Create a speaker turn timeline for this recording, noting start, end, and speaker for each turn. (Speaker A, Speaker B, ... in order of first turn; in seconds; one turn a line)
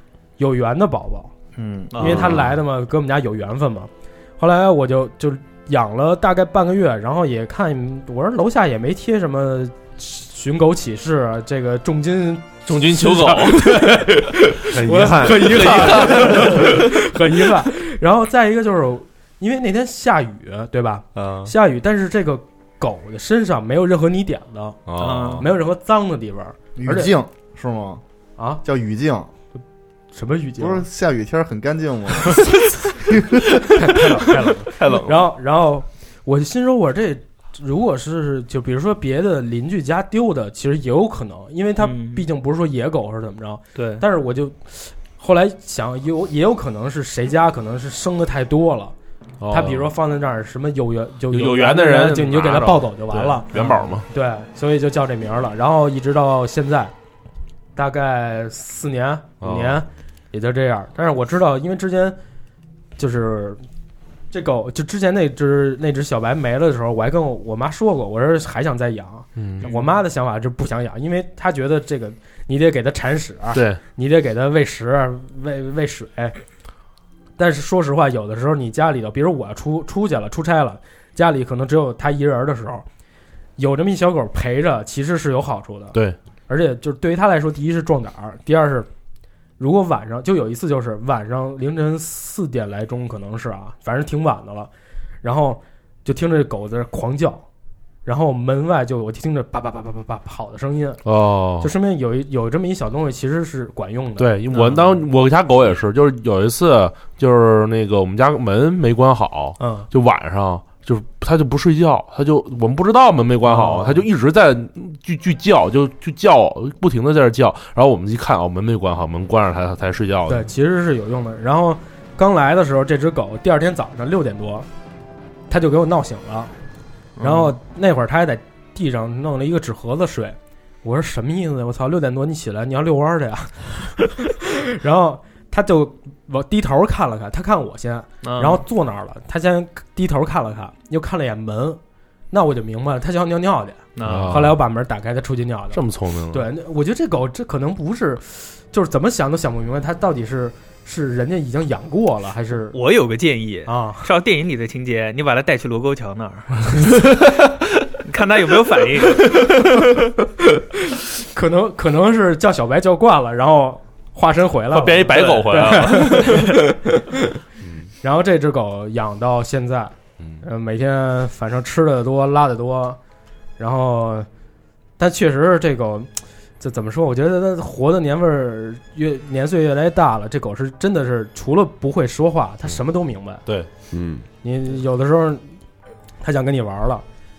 Speaker A: 0.4-1.3
Speaker B: 1.6-2.4
Speaker A: 2.0-24.8
Speaker C: 2.1-2.5
Speaker C: 12.7-14.4
Speaker D: 14.7-16.5
Speaker C: 15.0-16.9
Speaker C: 21.1-21.5
Speaker C: 24.9-25.5
Speaker B: 25.0-25.5
Speaker A: 25.4-27.1
Speaker E: 26.8-28.0
Speaker A: 28.4-28.6
Speaker E: 28.6-29.3
Speaker A: 30.1-30.9
Speaker E: 30.6-33.6
Speaker A: 33.7-49.0
Speaker C: 34.8-35.2
Speaker B: 41.8-42.3
Speaker B: 43.8-44.0
Speaker C: 49.4-49.9
Speaker A: 49.5-56.9
Speaker C: 51.3-54.1
Speaker A: 57.8-62.2
Speaker C: 59.4-59.8
Speaker A: 63.0-63.6
Speaker A: 64.3-76.4
Speaker C: 69.4-69.7
Speaker B: 69.6-69.9
Speaker C: 73.5-73.8
Speaker A: 77.4-82.9
Speaker A: 83.6-88.9
Speaker A: 89.6-94.7
Speaker A: 95.2-97.5
Speaker A: 98.0-101.0
Speaker C: 101.0-101.7
Speaker A: 101.6-104.3
Speaker C: 104.2-120.5
Speaker B: 104.5-104.9
Speaker A: 109.6-109.9
Speaker A: 113.5-114.0
Speaker A: 120.3-124.7
Speaker A: 125.5-126.5
Speaker B: 127.2-127.6
Speaker A: 127.2-141.8
Speaker B: 138.2-138.6
Speaker A: 142.3-152.8
Speaker B: 144.0-144.4
Speaker C: 144.0-144.6
Speaker C: 145.7-146.4
Speaker B: 152.7-156.9
Speaker A: 153.7-154.1
Speaker B: 157.9-159.4
Speaker A: 161.3-166.7
Speaker C: 164.7-166.6
Speaker B: 165.1-166.6
Speaker A: 168.0-173.0
Speaker A: 173.6-174.3
Speaker A: 175.0-183.4
Speaker D: 183.9-184.2
Speaker A: 184.4-185.5
Speaker A: 186.2-187.0